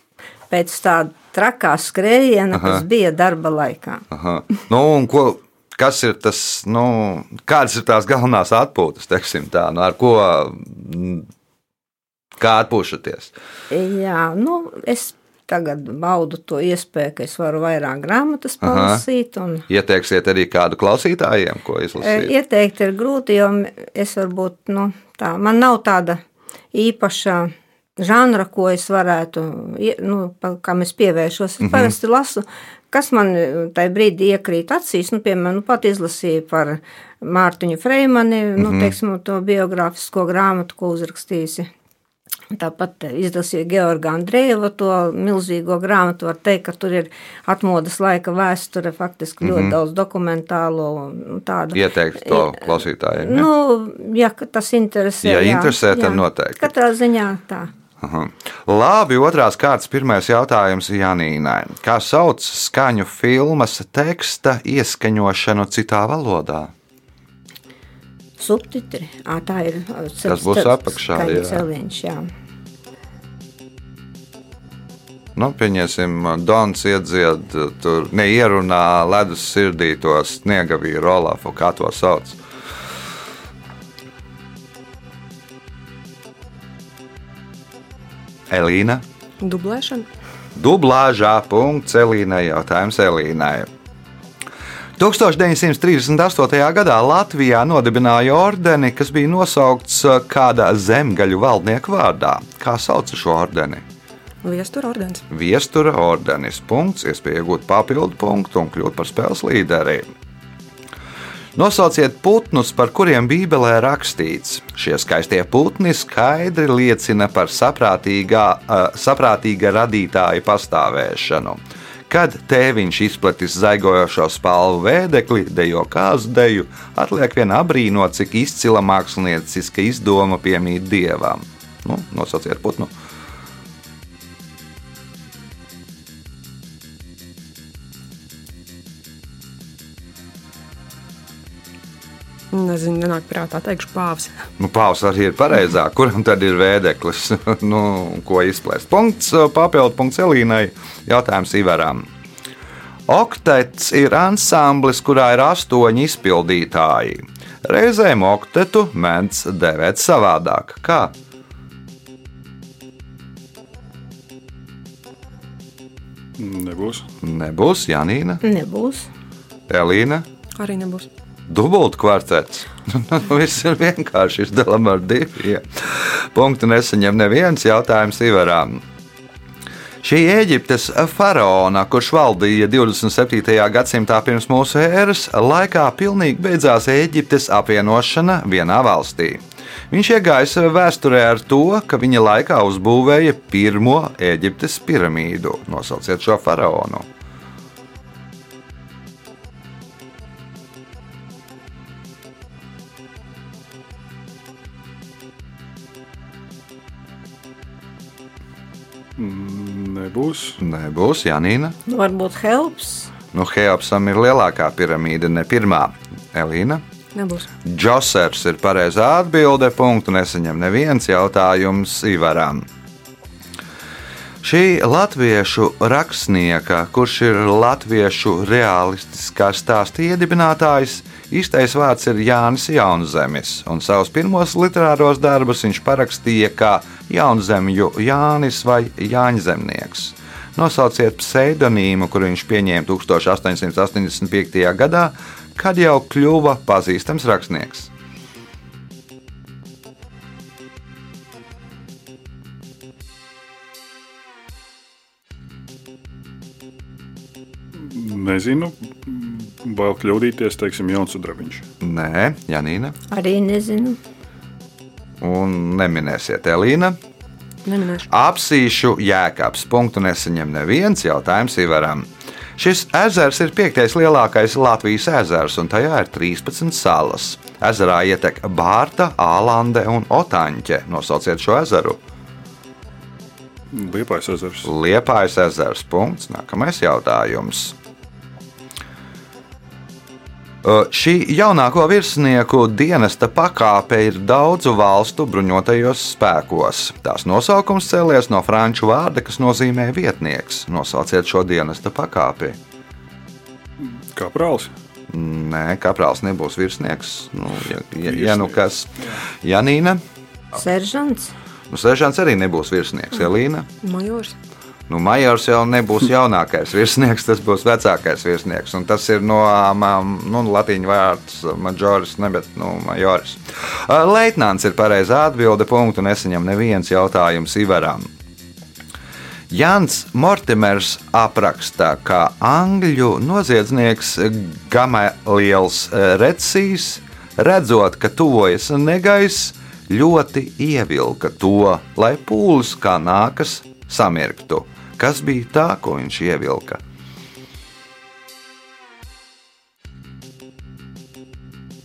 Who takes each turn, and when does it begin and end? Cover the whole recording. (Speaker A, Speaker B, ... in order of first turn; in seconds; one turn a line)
Speaker A: 0.5-4.0
Speaker B: 2.5-2.8
Speaker B: 4.1-11.3
Speaker B: 12.4-13.3
Speaker A: 13.7-19.6
Speaker B: 18.6-19.0
Speaker B: 19.7-22.3
Speaker A: 22.0-26.2
Speaker A: 26.7-41.7
Speaker B: 31.6-31.9
Speaker B: 38.6-38.9
Speaker A: 42.5-52.6
Speaker B: 49.4-49.8
Speaker B: 51.7-53.5
Speaker A: 53.2-57.7
Speaker B: 55.2-56.7
Speaker B: 58.0-66.7
Speaker A: 68.4-72.3
Speaker B: 70.3-71.7
Speaker B: 75.3-82.4
Speaker B: 88.5-89.0
Speaker C: 89.4-90.1
Speaker B: 90.6-93.7
Speaker B: 95.0-103.8
Speaker C: 104.4-105.2
Speaker B: 105.3-110.1
Speaker B: 111.5-132.9
Speaker C: 142.5-144.4
Speaker B: 144.6-152.1
Speaker B: 153.1-161.1
Speaker D: 166.4-167.1
Speaker B: 167.2-168.4
Speaker A: 168.4-169.1
Speaker B: 169.7-170.3
Speaker C: 170.6-171.1
Speaker B: 171.5-178.8
Speaker B: 180.0-197.1
Speaker D: 209.2-210.6
Speaker B: 210.6-211.8
Speaker A: 211.9-213.1
Speaker B: 213.3-216.8
Speaker C: 217.2-217.5
Speaker B: 217.7-222.7
Speaker B: 224.4-247.9
Speaker D: 257.8-261.6
Speaker B: 261.8-263.0
Speaker A: 263.1-264.0
Speaker B: 265.2-267.0
Speaker C: 267.7-268.1
Speaker B: 268.1-282.0
Speaker D: 283.7-284.7
Speaker B: 284.6-287.8
Speaker B: 290.6-302.6
Speaker D: 303.8-304.7
Speaker B: 305.1-310.0
Speaker D: 308.0-309.2
Speaker A: 310.5-311.3
Speaker B: 311.7-313.7
Speaker C: 313.8-314.4
Speaker B: 314.9-328.1
Speaker B: 329.5-346.8